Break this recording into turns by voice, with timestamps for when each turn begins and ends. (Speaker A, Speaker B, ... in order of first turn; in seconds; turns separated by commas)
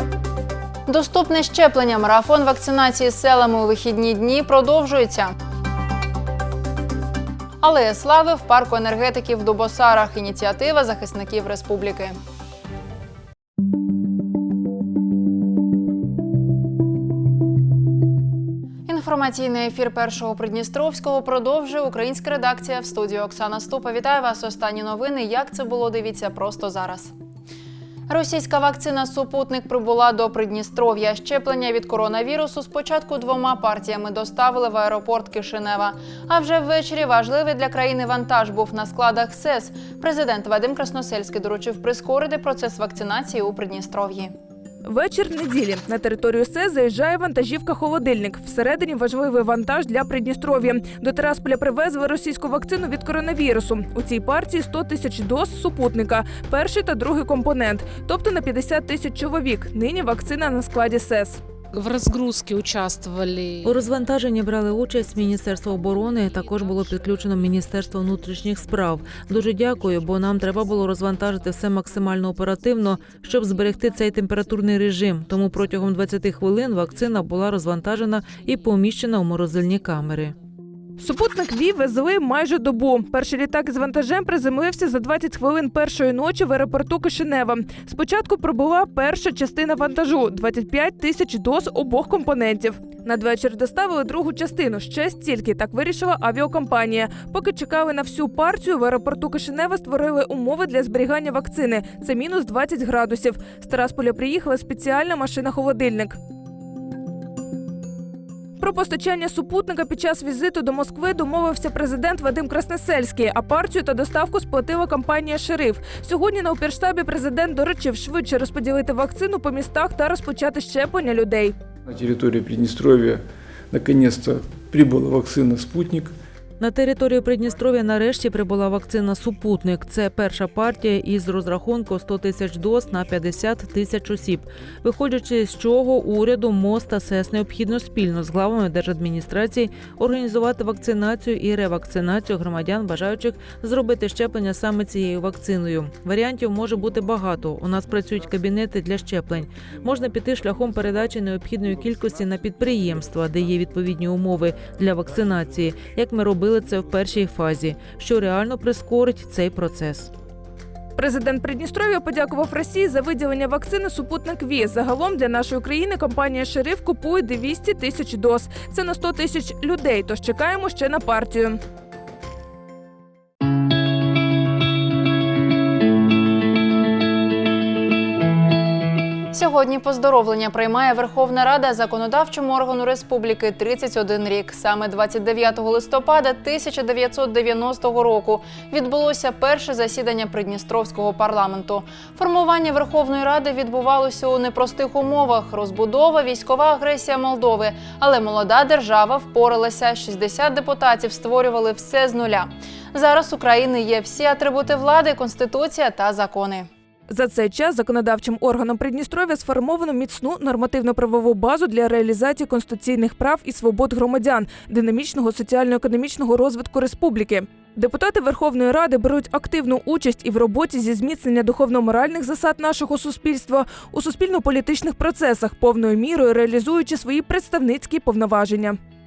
Speaker A: 0.9-5.3, Speaker A: 7.6-12.1, Speaker A: 18.9-27.1, Speaker A: 28.1-44.3, Speaker B: 44.9-61.4, Speaker C: 61.7-63.7, Speaker D: 63.6-80.3, Speaker B: 81.0-106.2, Speaker B: 108.6-121.5, Speaker E: 121.9-126.1, Speaker D: 126.6-160.1, Speaker B: 161.0-171.6, Speaker A: 179.3-206.7, Speaker B: 207.1-228.8